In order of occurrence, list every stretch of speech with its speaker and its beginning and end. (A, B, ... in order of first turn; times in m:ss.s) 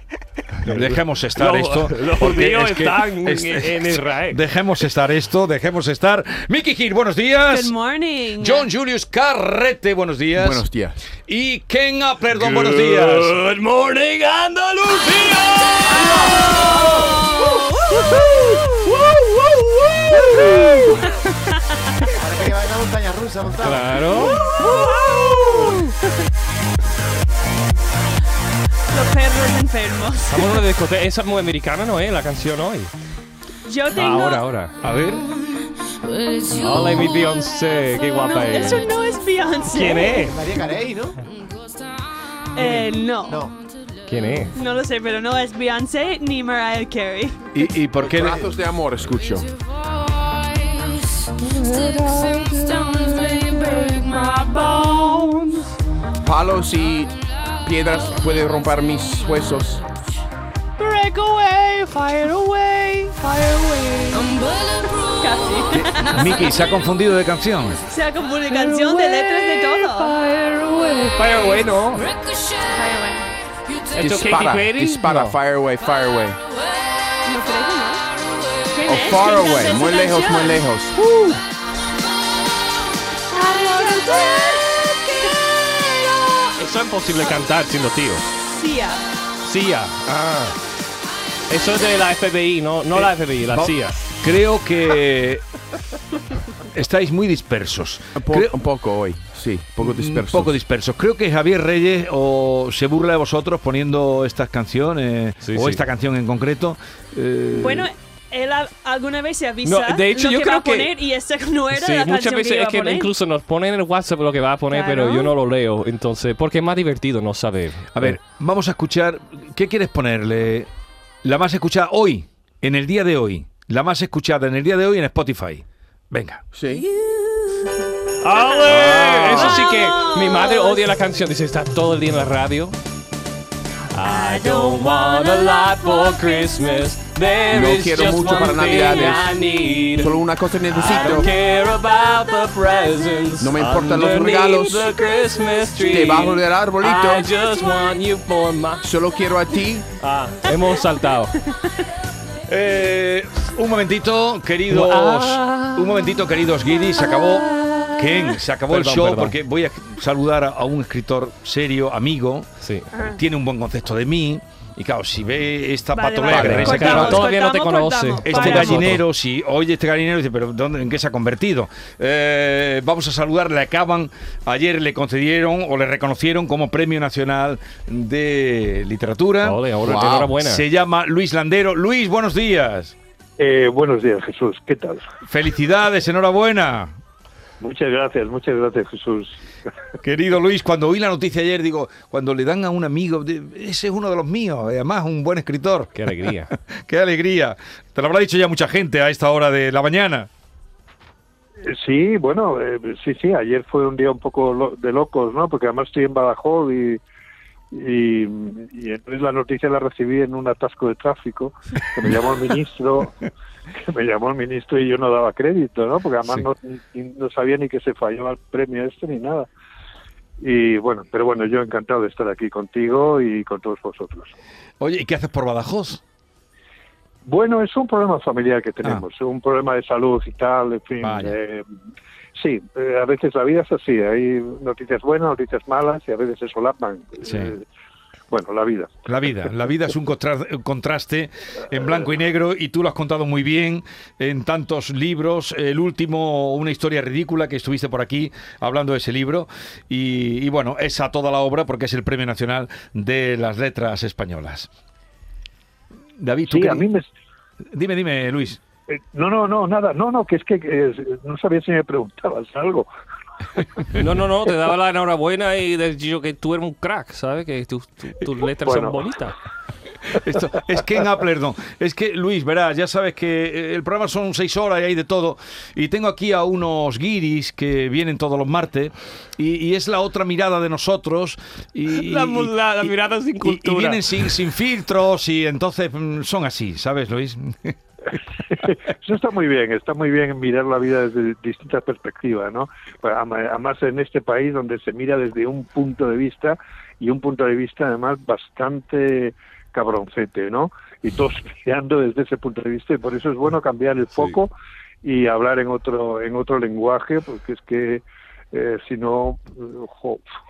0:00.6-0:04.4 A
0:00.6-0:07.7 B
0:07.5-0:08.7 C
0:08.4-0:10.6 B
0:10.3-0:11.0 D
0:11.3-0:13.4 B
0:12.3-0:21.0 A
0:15.8-0:18.6 C
0:20.2-0:21.6 C
0:22.2-0:24.4 E
0:23.6-0:25.8 A
0:24.3-0:25.8 C
0:28.9-0:30.6 C
0:30.3-0:32.9 A
0:33.6-0:34.4 C
0:33.9-0:34.8 A
0:34.8-0:35.2 B
0:36.5-0:38.8 A
0:38.2-0:40.3 C
0:39.7-0:40.3 A
0:40.0-0:41.2 E
0:42.5-0:43.4 C
0:42.6-0:43.5 E
0:44.1-0:44.5 A
0:44.5-0:47.4 C
0:47.5-0:48.4 B
0:48.0-0:49.5 D
0:51.4-0:53.0 A
0:52.6-0:55.4 C
0:54.8-0:55.6 A
0:56.2-0:59.8 D
1:00.8-1:03.2 A
1:03.2-1:04.4 C
1:05.2-1:06.2 C
1:05.7-1:06.0 D
1:06.0-1:07.8 B
1:07.9-1:10.2 C
1:08.5-1:12.1 A
1:12.6-1:13.3 C
1:13.9-1:15.4 A
1:14.0-1:16.4 D
1:17.2-1:18.0 C
1:18.7-1:20.6 C
1:18.9-1:21.0 D
1:23.3-1:25.3 C
1:26.6-1:28.3 A
1:28.5-1:29.0 C
1:29.4-1:30.6 A
1:31.5-1:34.0 A
1:33.5-1:35.4 B
1:36.7-1:38.5 B
1:38.2-1:40.6 D
1:39.8-1:47.9 B
1:45.4-1:45.8 A
1:47.5-1:53.1 C
1:49.6-1:50.9 A
1:51.7-1:58.2 A
1:54.7-1:55.3 C
1:57.9-2:00.7 B
2:01.2-2:06.4 B
2:06.5-2:06.9 D
2:07.0-2:07.7 C
2:08.2-2:12.8 A
2:08.4-2:11.0 C
2:08.6-2:09.6 B
2:13.9-2:20.2 A
2:14.0-2:16.7 C
2:17.5-2:19.4 D
2:20.0-2:21.3 D
2:20.7-2:28.9 A
2:20.8-2:21.4 C
2:23.4-2:24.9 D
2:25.8-2:27.2 D
2:28.8-2:29.9 D
2:30.0-2:31.4 A
2:32.5-2:42.5 B
2:34.7-2:36.1 A
2:37.4-2:39.4 A
2:42.6-2:42.9 A
2:42.9-2:43.2 C
2:43.1-2:47.3 B
2:45.9-2:48.9 C
2:46.3-2:49.0 A
2:46.3-2:47.0 D
2:48.2-2:59.6 B
2:59.4-3:00.6 A
2:59.8-3:00.3 D
3:00.4-3:02.9 B
3:03.4-3:05.0 F
3:05.2-3:06.9 B
3:07.6-3:09.4 F
3:10.0-3:15.9 B
3:15.9-3:16.5 A
3:16.9-3:20.3 B
3:21.6-3:27.0 F
3:27.7-3:33.2 F
3:33.8-3:39.5 F
3:40.4-3:44.3 F
3:44.8-3:46.0 B
3:47.2-3:51.6 F
3:51.0-3:51.4 B
3:52.4-3:57.6 F
3:57.2-3:57.5 B
3:58.3-3:59.0 F
3:59.0-4:14.7 B
4:16.2-4:16.8 B
4:16.5-4:17.0 F
4:17.7-4:18.6 B
4:18.9-4:22.9 F
4:23.9-4:29.3 A
4:28.6-4:29.0 F
4:30.1-4:47.7 B
4:41.9-4:44.3 A
4:48.5-5:10.2 F